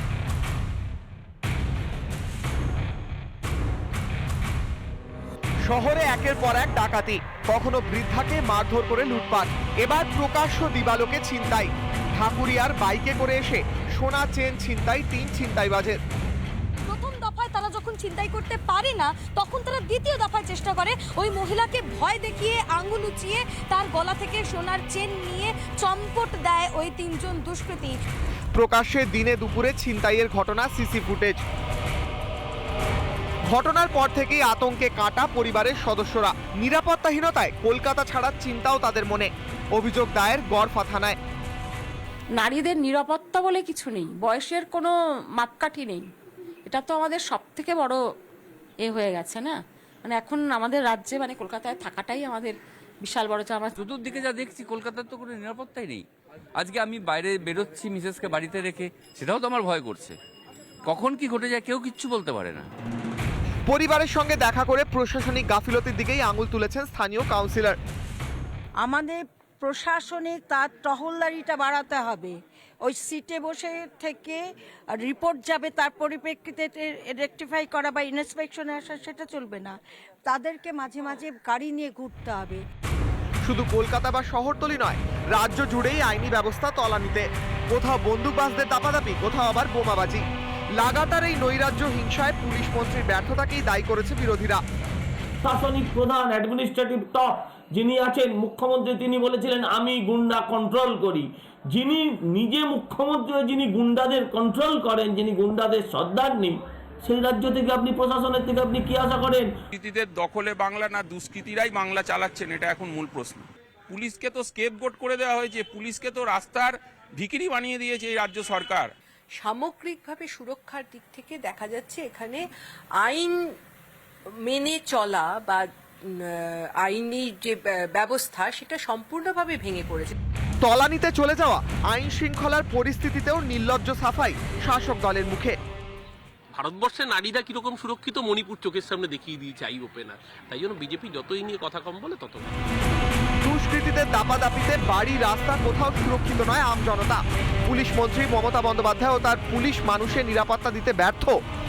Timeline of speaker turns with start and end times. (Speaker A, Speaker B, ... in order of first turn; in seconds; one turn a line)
Speaker A: 5.7-16.0
Speaker B: 16.9-28.0
Speaker A: 28.6-31.4
Speaker A: 33.5-41.2
Speaker C: 42.4-46.0
Speaker C: 46.7-48.0
Speaker C: 48.8-53.8
Speaker D: 53.8-60.2
Speaker D: 60.9-62.7
Speaker A: 63.7-67.8
Speaker E: 68.8-82.6
Speaker A: 83.5-90.2
Speaker A: 90.8-94.6
Speaker F: 95.4-109.5
Speaker G: 109.8-118.9
Speaker H: 119.4-122.4
Speaker H: 123.0-123.4
Speaker H: 124.5-125.7
Speaker H: 126.8-130.1
Speaker A: 130.6-135.6
Speaker I: 136.5-142.5
Speaker A: 143.4-151.4